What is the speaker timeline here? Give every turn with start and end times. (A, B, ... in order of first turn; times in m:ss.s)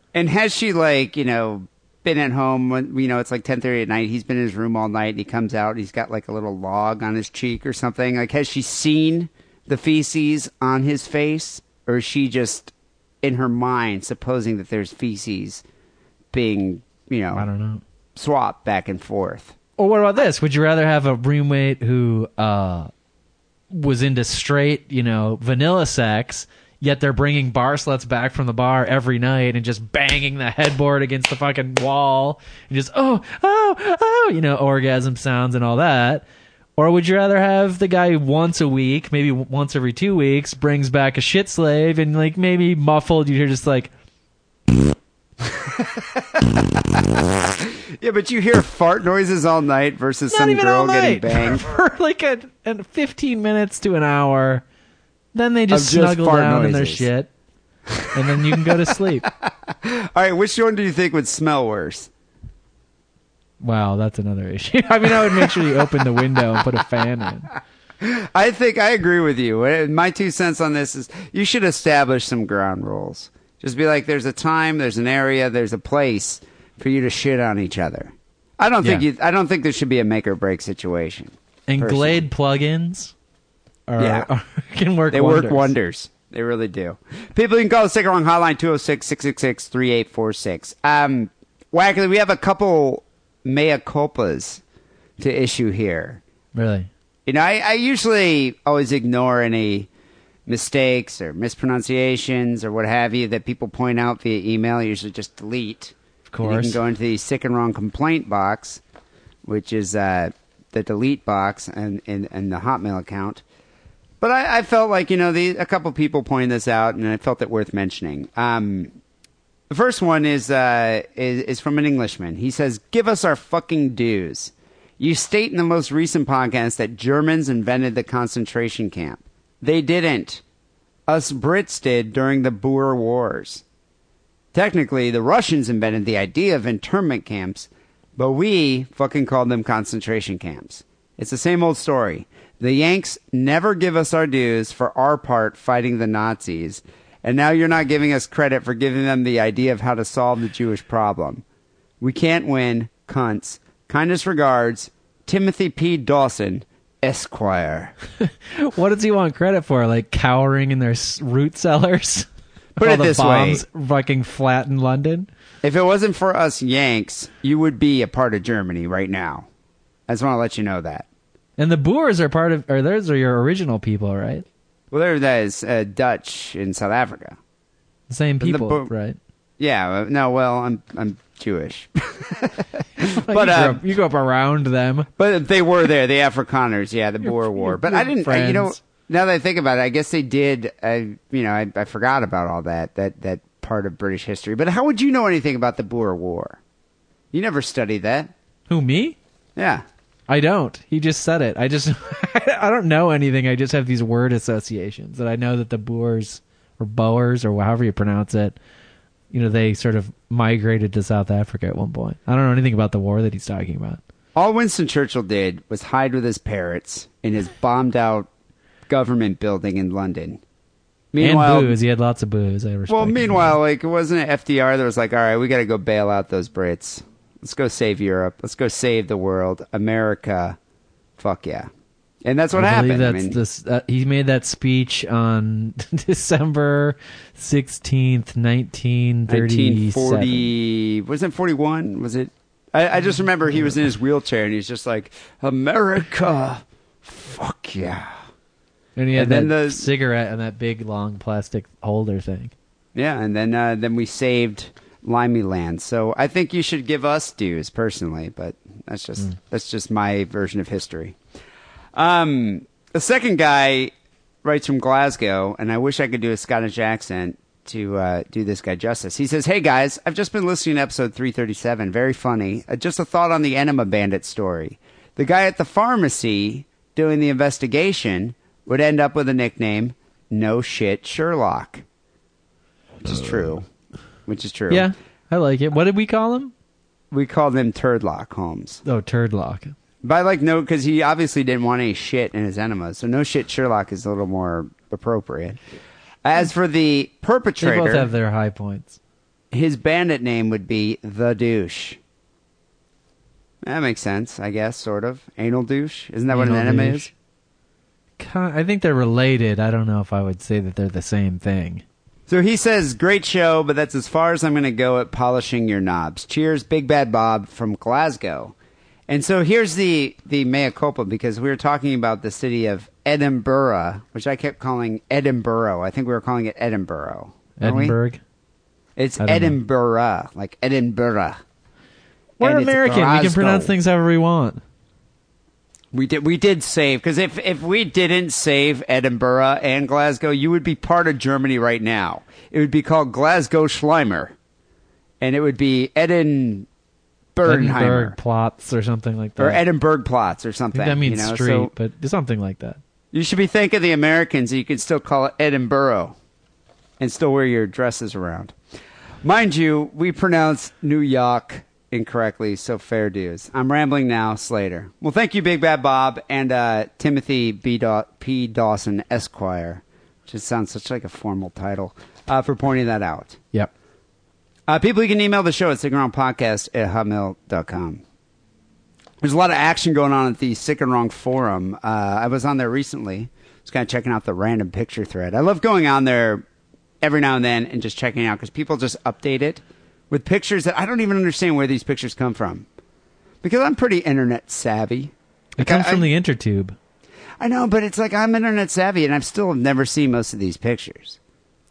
0:00.1-0:15.6 A
0:16.3-0:17.5 A
0:17.3-0:17.8 B
0:18.2-0:19.6 A
0:19.8-0:22.9 B
0:23.7-0:36.2 B
0:36.8-0:43.9 B
0:45.4-0:51.7 A
0:50.3-0:54.6 B
0:55.3-0:57.3 B
0:55.7-0:57.1 A
0:57.9-0:58.8 A
0:58.1-0:59.3 B
0:59.3-1:02.1 A
1:03.6-1:07.5 B
1:05.0-1:06.0 A
1:08.0-1:22.2 A
1:21.7-1:23.1 B
1:23.9-1:25.8 B
1:24.0-1:24.3 A
1:25.1-1:34.6 A
1:35.2-1:36.2 A
1:36.6-1:36.9 B
1:37.3-1:39.9 A
1:40.5-1:48.8 A
1:46.3-1:46.8 B
1:49.4-1:53.4 A
1:54.2-1:58.9 A
1:59.7-2:10.4 A
2:11.1-2:13.6 A
2:14.5-2:31.4 A
2:32.0-2:37.9 A
2:38.2-2:45.3 B
2:42.8-2:43.6 A
2:45.6-2:49.5 A
2:50.1-2:51.1 A
2:51.6-2:54.4 B
2:54.9-2:57.4 A
2:58.1-2:59.2 B
2:58.4-2:58.9 A
2:59.6-3:03.8 A
3:03.0-3:05.1 B
3:05.2-3:16.6 A
3:07.2-3:08.8 B
3:17.3-3:18.3 A
3:18.7-3:19.2 B
3:19.6-3:19.8 A
3:20.3-3:28.6 B
3:29.3-3:34.0 B
3:34.4-3:38.3 A
3:38.9-3:40.4 A
3:41.1-3:41.8 A
3:41.2-3:43.6 B
3:42.9-3:50.6 A
3:51.2-3:51.7 A
3:52.2-3:53.4 A
3:52.6-4:00.4 B
3:59.3-4:08.2 A
4:09.0-4:12.5 B
4:09.1-4:09.9 A
4:13.0-4:21.2 A
4:22.0-4:23.9 A
4:24.4-4:41.8 A
4:43.0-4:43.7 A
4:44.3-4:44.9 A
4:44.7-4:46.5 B
4:47.1-4:48.8 A
4:48.8-4:49.7 B
4:50.0-4:55.6 A
4:56.2-4:58.1 A
4:57.6-4:59.0 B
4:59.5-5:02.0 A
5:03.6-5:07.1 A
5:06.3-5:07.1 B
5:08.2-5:11.8 B
5:12.3-5:18.6 A
5:19.1-5:28.0 A
5:27.6-5:28.2 B
5:29.0-5:31.4 A
5:29.2-5:29.6 B
5:32.4-5:34.6 B
5:32.4-5:33.7 A
5:35.9-5:44.4 A
5:45.2-5:46.7 A
5:47.4-5:48.2 A
5:47.4-5:49.6 B
5:49.4-5:51.7 A
5:50.7-5:52.8 B
5:53.1-5:56.2 A
5:57.0-5:58.5 A
5:59.2-6:13.4 A
6:14.7-6:18.0 A
6:19.2-6:26.5 A
6:27.0-6:32.7 A
6:33.4-6:36.1 A
6:35.6-6:36.8 B
6:37.4-6:41.2 A